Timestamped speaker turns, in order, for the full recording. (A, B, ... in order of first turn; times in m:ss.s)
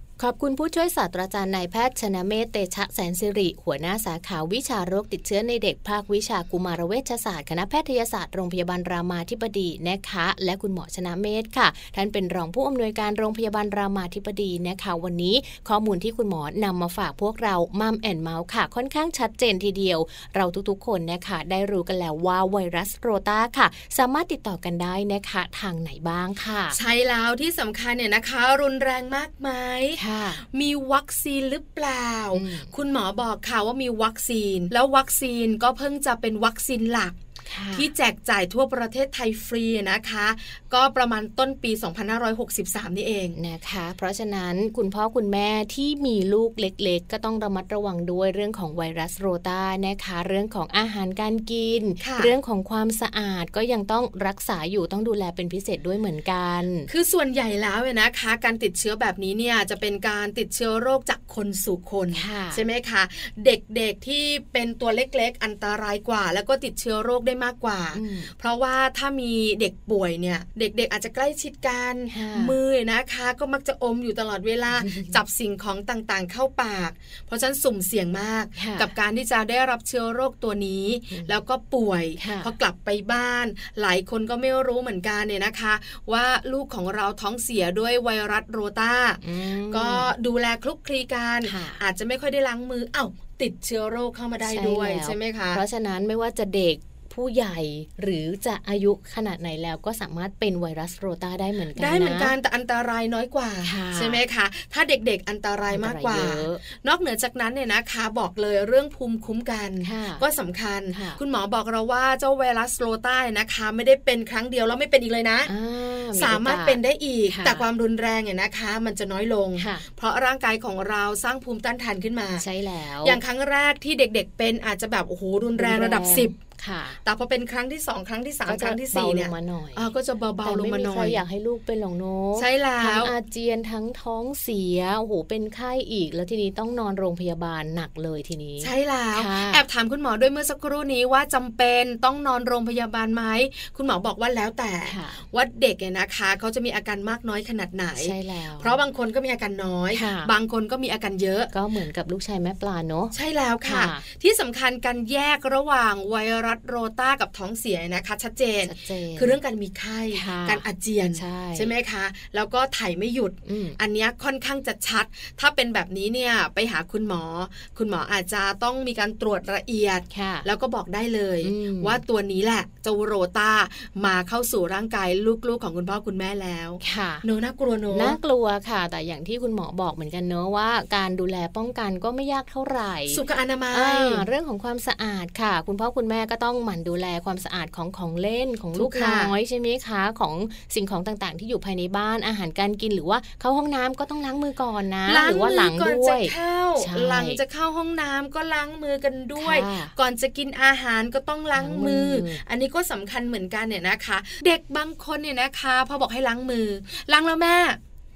0:00.2-0:26.8 A
0:26.7-0:37.2 B
0:30.0-0:30.4 A
0:32.3-0:32.7 A
0:37.4-0:37.9 A
0:37.7-0:43.4 B
0:43.4-0:56.9 A
0:52.0-0:52.4 B
0:56.9-1:35.6 B
1:02.1-1:02.6 A
1:07.9-1:08.3 A
1:12.1-1:12.6 A
1:14.8-1:15.2 A
1:18.6-1:18.9 A
1:21.1-1:21.4 A
1:22.2-1:22.5 A
1:29.2-1:30.1 A
1:31.4-1:31.8 A
1:34.4-1:42.3 A
1:41.8-1:55.5 B
1:43.6-1:44.2 A
1:45.7-1:46.6 A
1:49.8-1:50.2 A
1:50.9-1:51.2 A
1:55.5-1:57.6 A
1:56.1-2:02.5 B
1:59.6-1:59.8 A
2:02.4-2:03.2 A
2:03.0-2:06.4 B
2:05.6-2:07.0 A
2:07.0-2:11.2 B
2:08.4-2:09.9 A
2:10.4-2:19.6 A
2:12.4-2:13.1 B
2:18.6-2:31.5 B
2:24.8-2:25.2 A
2:28.0-2:28.8 A
2:29.9-2:30.3 A
2:31.5-2:33.1 A
2:33.1-2:58.2 B
2:33.6-2:34.0 A
2:38.6-2:39.3 A
2:40.1-2:41.7 A
2:43.4-2:43.8 A
2:50.1-2:50.4 A
2:51.4-2:52.0 A
2:56.8-2:57.2 A
2:57.9-3:17.4 A
3:03.1-3:04.3 B
3:08.7-3:09.3 B
3:15.1-3:27.8 B
3:19.4-3:19.9 A
3:21.6-3:22.4 A